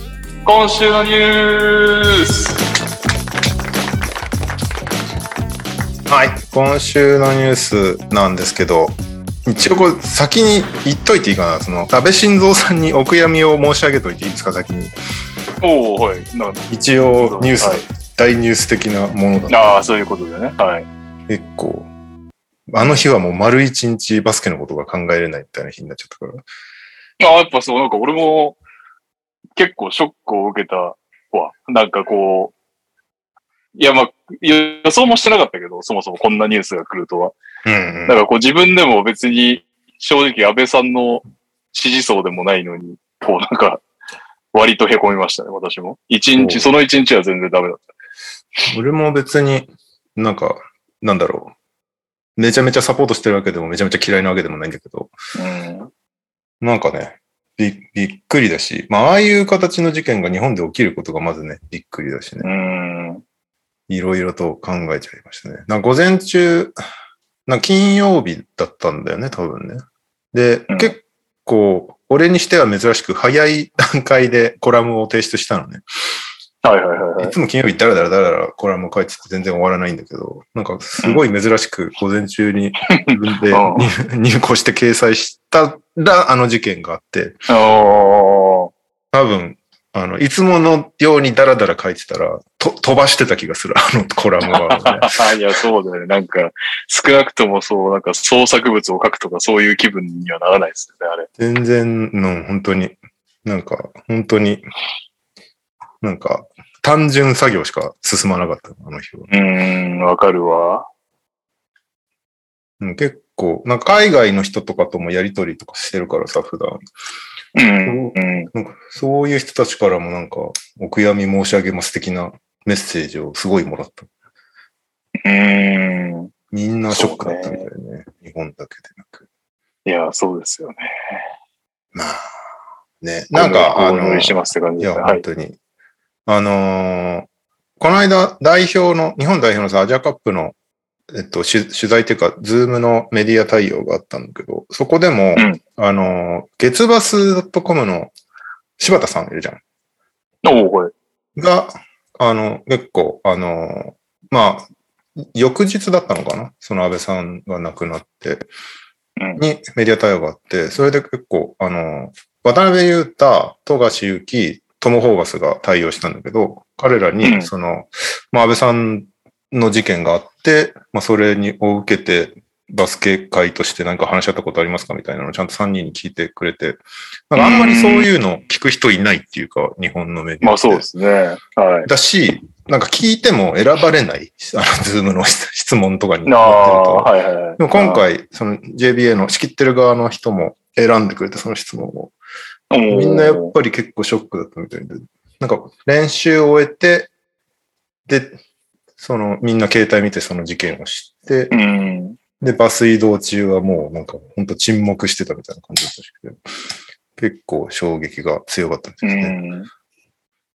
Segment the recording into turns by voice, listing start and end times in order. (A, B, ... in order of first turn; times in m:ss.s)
0:00.4-0:02.6 A
0:06.1-0:14.9 B
0:15.6-0:17.9 A
0:16.7-0:19.8 B
0:19.5-0:20.9 A
0:21.3-0:21.9 B
0:22.7-0:26.4 B
0:27.2-0:28.6 A
0:29.6-0:32.5 A
0:33.8-0:37.4 A
0:37.6-0:38.2 B
0:38.1-0:43.8 A
0:44.5-0:47.8 A
0:46.4-0:46.7 B
0:48.7-0:51.5 B
0:52.4-0:55.1 B
0:55.4-0:55.9 A
0:56.6-1:02.5 B
1:02.4-1:03.2 A
1:03.9-1:06.8 B
1:07.5-1:15.8 B
1:10.7-1:11.0 A
1:16.6-1:17.3 A
1:17.2-1:27.4 B
1:22.9-1:23.9 A
1:27.5-1:28.7 A
1:29.1-1:35.2 B
1:34.5-1:41.3 A
1:41.4-1:44.6 B
1:46.0-1:49.3 B
1:49.3-1:50.9 A
1:52.8-1:56.8 B
1:57.6-1:58.5 A
1:57.8-2:04.1 B
2:05.2-2:06.3 A
2:06.5-2:09.3 B
2:06.9-2:07.7 A
2:09.8-2:11.2 A
2:11.9-2:12.3 B
2:13.0-2:15.6 B
2:13.3-2:15.2 A
2:16.3-2:17.3 B
2:17.8-2:20.6 B
2:21.1-2:28.1 B
2:28.8-2:29.6 B
2:30.4-2:30.9 A
2:31.4-2:38.5 B
2:39.4-3:00.9 B
2:47.2-2:47.5 A
2:57.4-2:58.1 A
3:00.4-3:01.9 A
3:01.8-3:12.2 B
3:06.3-3:08.0 A
3:12.7-3:13.5 A
3:12.9-3:17.1 B
3:18.1-3:18.4 B
3:19.0-3:21.5 B
3:21.5-3:22.2 A
3:22.4-3:26.4 B
3:27.2-3:29.4 B
3:29.0-3:29.7 A